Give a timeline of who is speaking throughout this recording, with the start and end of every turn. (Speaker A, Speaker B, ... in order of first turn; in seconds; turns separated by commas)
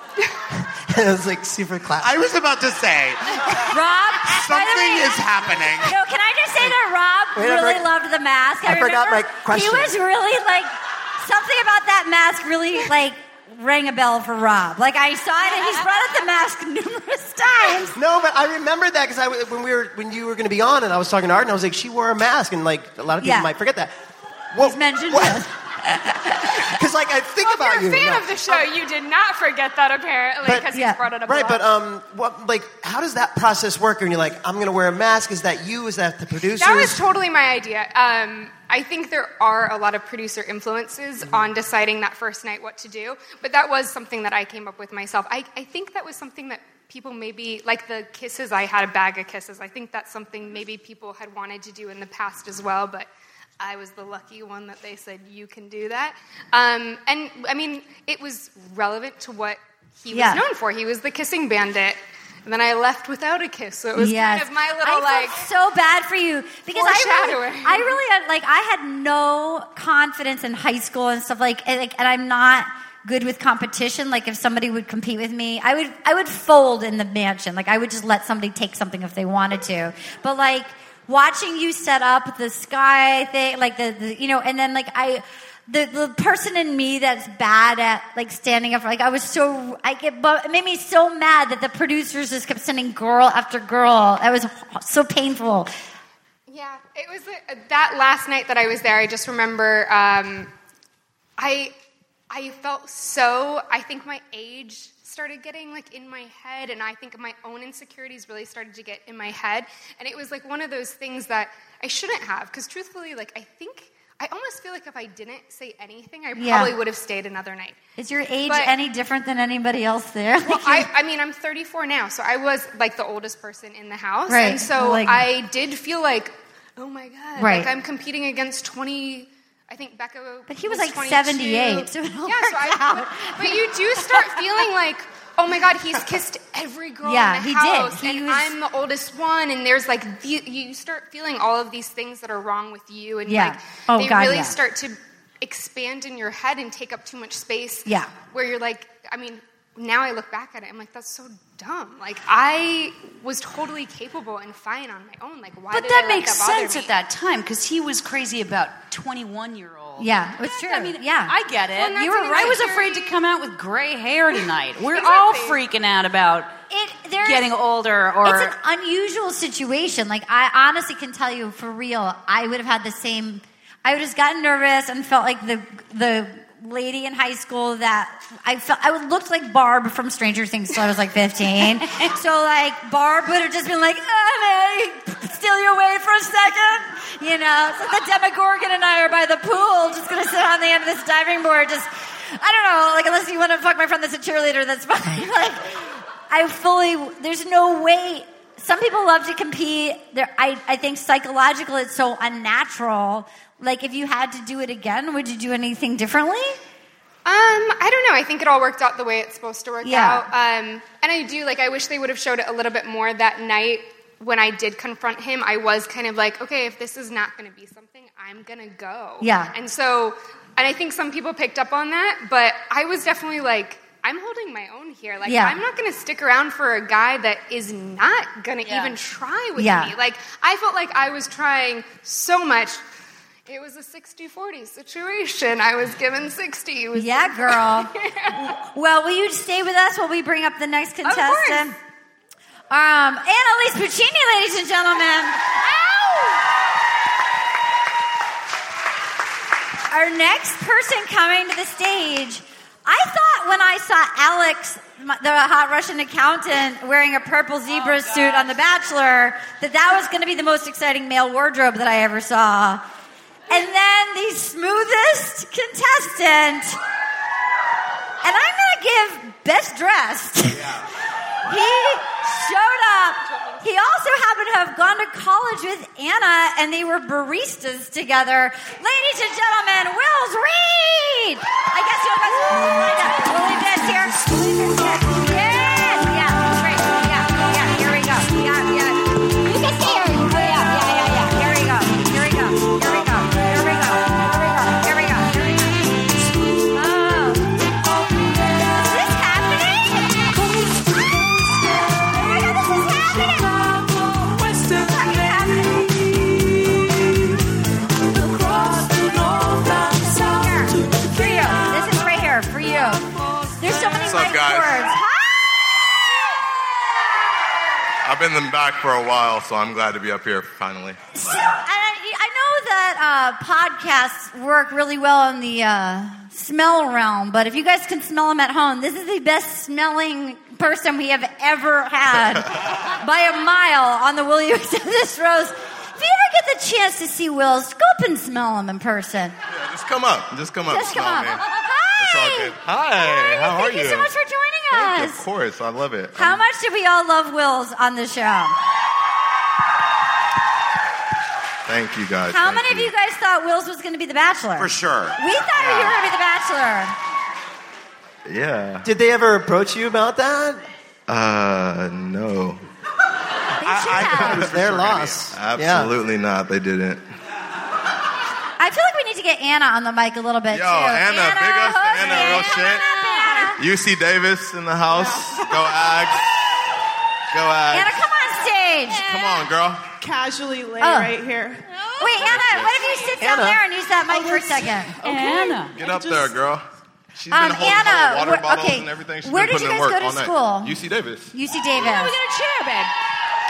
Speaker A: 0.5-2.3, Speaker B: 2.0-3.7, Speaker C: 3.7-18.0, Speaker B: 4.2-5.9, Speaker A: 7.3-7.9, Speaker A: 8.6-10.0, Speaker A: 17.9-23.9, Speaker C: 23.2-23.5, Speaker A: 24.5-25.4, Speaker C: 24.6-25.5, Speaker A: 26.5-28.7, Speaker D: 27.4-31.7, Speaker C: 30.7-31.0, Speaker A: 31.2-37.0, Speaker D: 36.6-53.1, Speaker D: 53.6-65.5, Speaker C: 60.1-60.4, Speaker C: 64.0-95.7, Speaker D: 66.7-68.0, Speaker D: 96.5-100.5, Speaker D: 101.4-101.7, Speaker D: 102.3-117.8, Speaker C: 116.3-116.8, Speaker C: 118.0-120.9, Speaker D: 118.4-118.7, Speaker D: 120.5-156.9, Speaker C: 124.3-125.3, Speaker C: 127.4-127.7, Speaker C: 130.5-134.7, Speaker C: 137.0-138.5, Speaker C: 143.3-144.6, Speaker C: 147.9-148.1, Speaker E: 155.7-166.5, Speaker C: 160.0-161.3, Speaker D: 161.7-163.2, Speaker C: 161.9-162.6, Speaker D: 164.9-165.6, Speaker C: 166.7-167.5, Speaker E: 167.2-168.6, Speaker C: 168.2-206.6, Speaker D: 207.3-232.8, Speaker C: 209.8-210.3, Speaker C: 219.2-219.5, Speaker C: 225.2-225.6, Speaker C: 229.6-229.9, Speaker D: 233.5-238.4, Speaker C: 236.9-241.8, Speaker D: 241.1-241.6, Speaker C: 242.7-245.4, Speaker D: 245.7-246.2, Speaker C: 249.9-262.8, Speaker C: 263.5-266.8, Speaker C: 268.2-270.7, Speaker C: 271.5-295.8, Speaker C: 296.7-297.5, Speaker C: 298.8-300.2, Speaker E: 300.6-302.6, Speaker C: 302.2-303.5, Speaker E: 303.2-304.7, Speaker C: 304.8-305.8, Speaker E: 305.9-307.0, Speaker E: 308.1-311.5, Speaker C: 310.3-313.0, Speaker C: 313.6-315.6, Speaker F: 314.0-314.9, Speaker F: 318.1-321.0, Speaker C: 321.1-339.4, Speaker F: 339.5-341.4, Speaker C: 340.7-345.2, Speaker F: 342.0-344.1, Speaker F: 344.7-346.4, Speaker C: 346.1-348.6, Speaker F: 351.7-352.9, Speaker C: 352.3-356.9, Speaker B: 354.6-355.9, Speaker F: 358.3-358.9, Speaker A: 358.8-360.6, Speaker F: 361.1-362.6, Speaker C: 363.6-364.5, Speaker B: 363.6-365.3, Speaker F: 364.0-364.7, Speaker A: 364.2-365.9, Speaker F: 365.3-367.0, Speaker C: 368.6-373.6, Speaker F: 370.5-372.9, Speaker F: 373.6-376.3, Speaker G: 374.9-375.7, Speaker F: 377.3-378.0, Speaker C: 377.7-379.1, Speaker F: 378.9-379.9, Speaker G: 380.0-381.6, Speaker C: 380.8-381.1, Speaker C: 382.0-385.5, Speaker E: 382.1-382.7, Speaker F: 382.2-382.8, Speaker A: 383.2-383.6, Speaker G: 384.1-386.3, Speaker E: 385.0-385.7, Speaker F: 385.7-386.6, Speaker F: 387.1-391.3, Speaker C: 387.3-390.8, Speaker C: 391.3-392.1, Speaker E: 391.7-392.9